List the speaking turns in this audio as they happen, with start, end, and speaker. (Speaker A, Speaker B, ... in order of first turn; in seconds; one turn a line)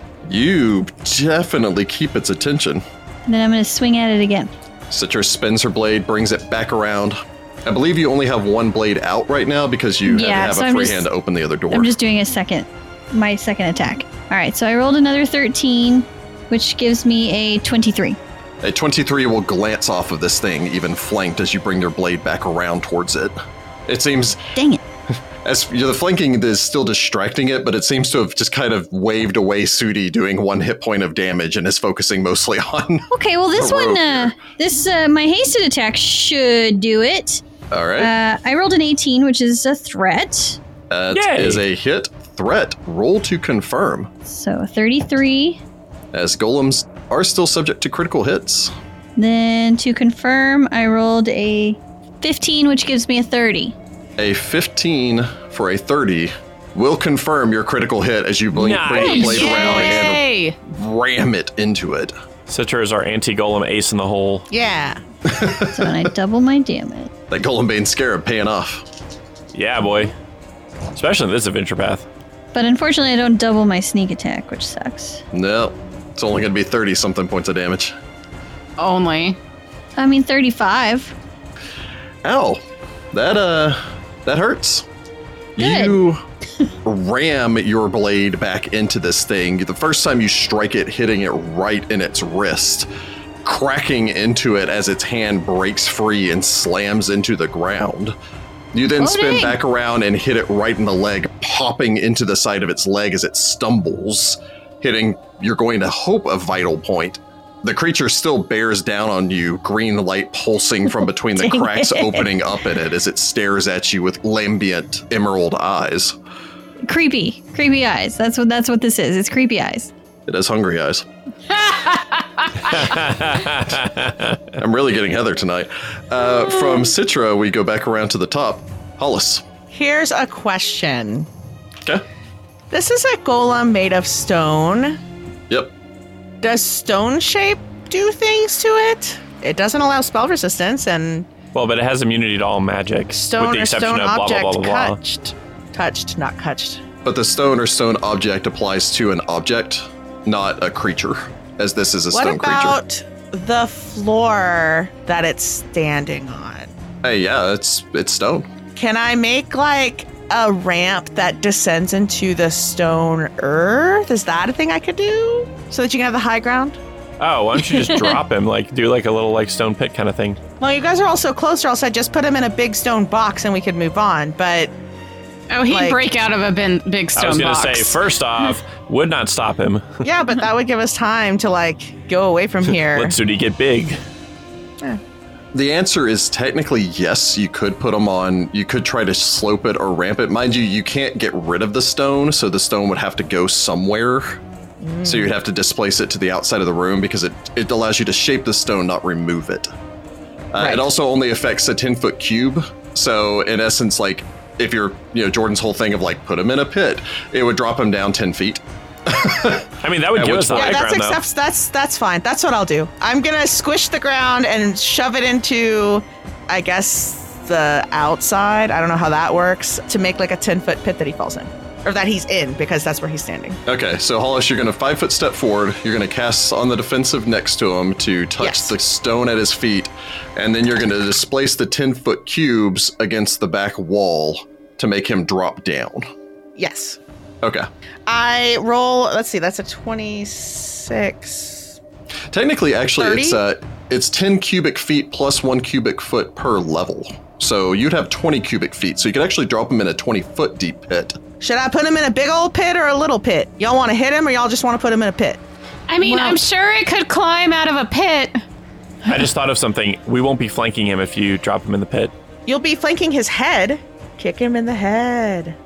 Speaker A: 0.2-2.8
Speaker B: 3.2-4.5
Speaker A: 4.9-11.9
Speaker B: 10.1-11.1
Speaker B: 11.7-18.2
Speaker A: 18.6-23.4
Speaker A: 23.9-24.4
Speaker B: 24.5-24.8
Speaker A: 25.4-34.3
Speaker B: 33.1-37.4
Speaker A: 37.7-38.1
Speaker B: 38.0-40.6
Speaker A: 40.9-44.1
Speaker C: 41.1-41.6
Speaker B: 44.2-45.6
Speaker A: 46.1-48.7
Speaker B: 49.2-53.8
Speaker A: 54.2-62.1
Speaker C: 58.5-59.9
Speaker D: 59.0-60.6
Speaker C: 62.5-64.5
Speaker E: 64.5-65.0
Speaker A: 65.2-66.1
Speaker B: 65.7-67.1
Speaker A: 67.3-68.8
Speaker C: 69.5-70.1
Speaker C: 70.9-72.0
Speaker B: 72.5-75.2
Speaker A: 75.3-77.9
Speaker D: 78.8-79.4
Speaker B: 80.0-81.1
Speaker A: 82.2-82.6
Speaker A: 83.1-84.8
Speaker A: 85.5-86.2
Speaker B: 85.6-86.0
Speaker A: 86.8-92.9
Speaker A: 93.4-98.1
Speaker A: 98.7-116.2
Speaker B: 99.0-99.6
Speaker B: 111.3-112.3
Speaker B: 116.8-119.9
Speaker A: 120.3-121.0
Speaker D: 121.5-122.4
Speaker C: 122.7-124.4
Speaker A: 124.5-129.4
Speaker E: 129.7-131.3
Speaker E: 132.7-135.0
Speaker E: 136.4-141.3
Speaker C: 141.5-145.0
Speaker E: 143.1-146.8
Speaker A: 147.0-152.8
Speaker E: 152.1-156.7
Speaker A: 157.0-158.5
Speaker E: 158.8-166.8
Speaker C: 167.2-170.4
Speaker B: 167.8-168.2
Speaker E: 170.6-174.7
Speaker D: 175.5-178.0
Speaker E: 175.7-176.1
Speaker C: 177.2-180.0
Speaker E: 180.0-183.1
Speaker C: 182.7-184.0
Speaker A: 185.5-194.4
Speaker E: 194.8-195.3
Speaker A: 195.0-199.7
Speaker A: 200.5-210.8
Speaker E: 200.6-200.8
Speaker C: 209.8-211.2
Speaker E: 210.5-223.6
Speaker A: 223.7-236.1
Speaker E: 228.4-228.7
Speaker E: 236.6-237.0
Speaker A: 237.4-237.7
Speaker E: 238.1-241.7
Speaker A: 242.3-251.2
Speaker E: 243.0-243.4
Speaker E: 251.4-255.4
Speaker D: 255.9-258.4
Speaker B: 256.0-256.4
Speaker C: 259.1-262.1
Speaker E: 262.5-265.6